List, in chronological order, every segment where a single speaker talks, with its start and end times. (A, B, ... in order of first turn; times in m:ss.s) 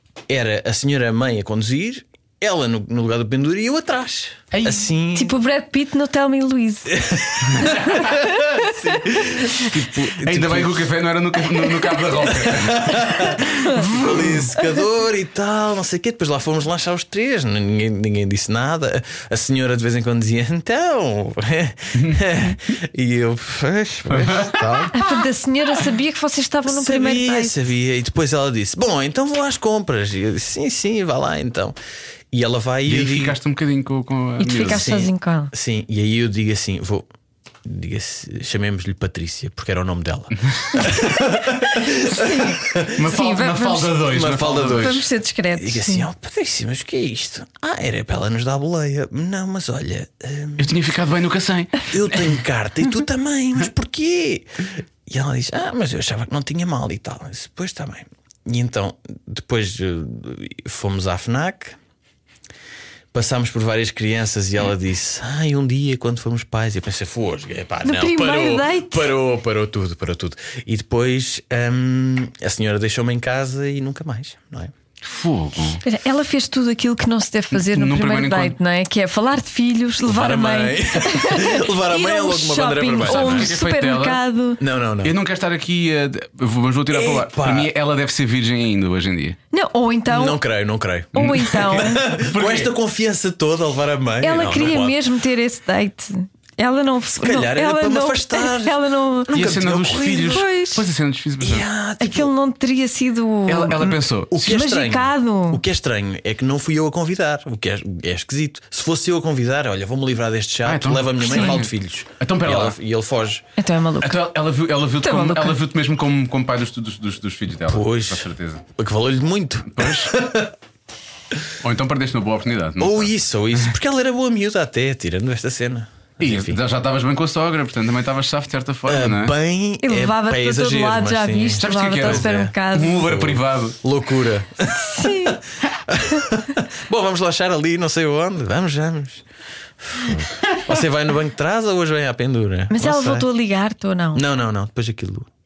0:00.3-0:05.4 A
0:04.5-0:04.9 B
0:05.1-0:09.2 C
0:06.9-0:10.9 A
0:07.6-0:08.0 B
0:09.7-0:14.5 B
0:11.5-0:25.0 A
0:24.1-0:24.8 B
0:24.9-0:27.6 C
0:26.7-0:31.8 A
0:32.3-0:33.4 A
0:32.9-0:35.0 B
0:34.4-0:35.5 C
0:34.6-0:37.0 A
0:37.6-0:43.1 A
0:42.1-0:44.0 C
0:42.9-0:45.1 B
0:44.0-0:50.7 A
0:44.6-0:46.1 C
0:50.6-0:52.4 B
0:51.9-1:01.8 A
1:03.1-1:14.7 A
1:07.8-1:09.1 C
1:15.0-1:15.8 B
1:15.8-1:24.6 C
1:17.5-1:18.6 B
1:20.0-1:23.5 A
1:23.0-1:24.2 B
1:24.6-1:25.2 A
1:25.0-1:29.4 B
1:26.9-1:27.7 A
1:29.5-1:30.4 C
1:30.1-1:35.0 A
1:31.1-1:32.1 C
1:31.1-1:32.7 B
1:34.2-1:39.3 C
1:37.2-1:40.5 A
1:39.3-1:41.6 B
1:40.3-1:40.8 C
1:41.4-1:42.3 A
1:42.0-1:45.6 C
1:43.5-1:44.4 B
1:44.3-1:53.4 A
1:50.6-1:52.8 B
1:51.3-1:51.6 C
1:53.6-1:54.2 C
1:54.0-1:58.6 B
1:55.0-1:55.6 C
1:57.7-2:00.5 A
1:59.7-2:00.2 B
2:01.6-2:03.1 B
2:02.8-2:06.6 A
2:06.2-2:09.4 B
2:08.9-2:19.3 A
2:09.8-2:13.0 C
2:11.6-2:13.8 B
2:14.7-2:15.4 C
2:19.8-2:23.3 A
2:22.7-2:24.3 C
2:24.1-2:25.3 A